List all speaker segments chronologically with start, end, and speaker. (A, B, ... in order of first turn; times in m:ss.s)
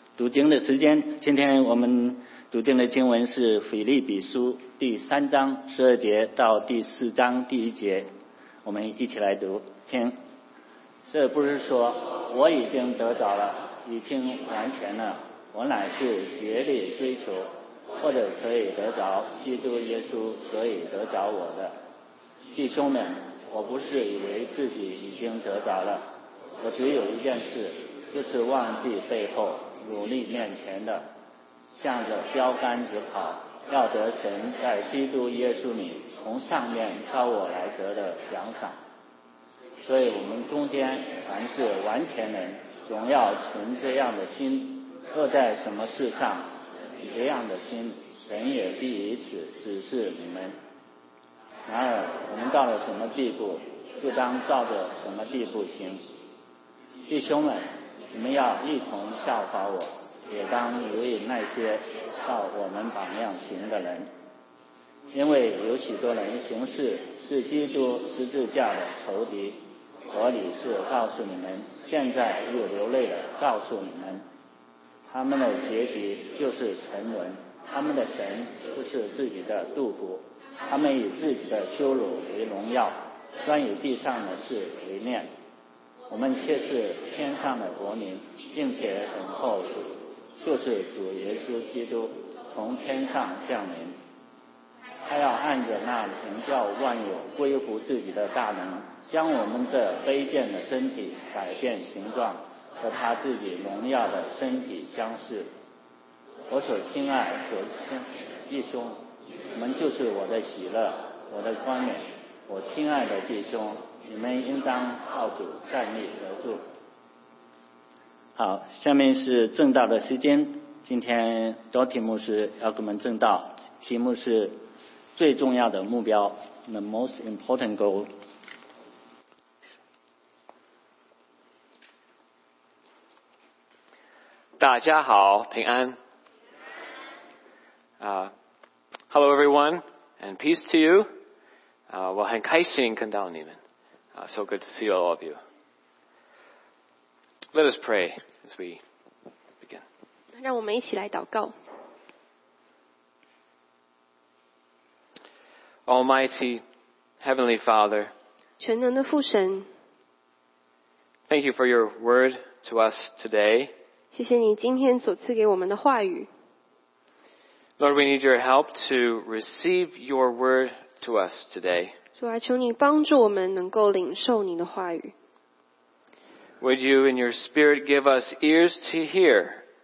0:00.2-0:08.1 A
0:08.6-0:10.2 A
0:11.1-0:21.7 A
0:22.5-0:26.0 A
0:26.6-0:31.1 A
0:31.7-0:38.8 A
0:39.8-0:46.5 A
0:47.0-0:50.5 A
0:51.7-0:56.0 A
0:57.1-1:04.1 A
1:05.1-1:14.2 A
1:15.1-1:25.3 A
1:26.1-1:33.9 A
1:35.0-1:45.5 A
1:46.5-1:49.0 A
1:49.5-1:56.6 A
1:58.4-2:04.6 A
2:05.2-2:08.1 A
2:14.6-2:16.0 B
2:18.0-2:18.3 B
2:19.1-2:21.1 B
2:21.9-2:23.6 B
2:24.1-2:25.4 B
2:27.5-2:28.8 B
2:30.4-2:31.5 C
2:35.8-2:36.6 B
2:37.2-2:38.1 B
2:38.6-2:39.7 C
2:41.3-2:43.7 B
2:44.1-2:46.3 C
2:47.8-2:51.9 B
2:52.2-2:55.1 C
2:56.6-2:59.6 B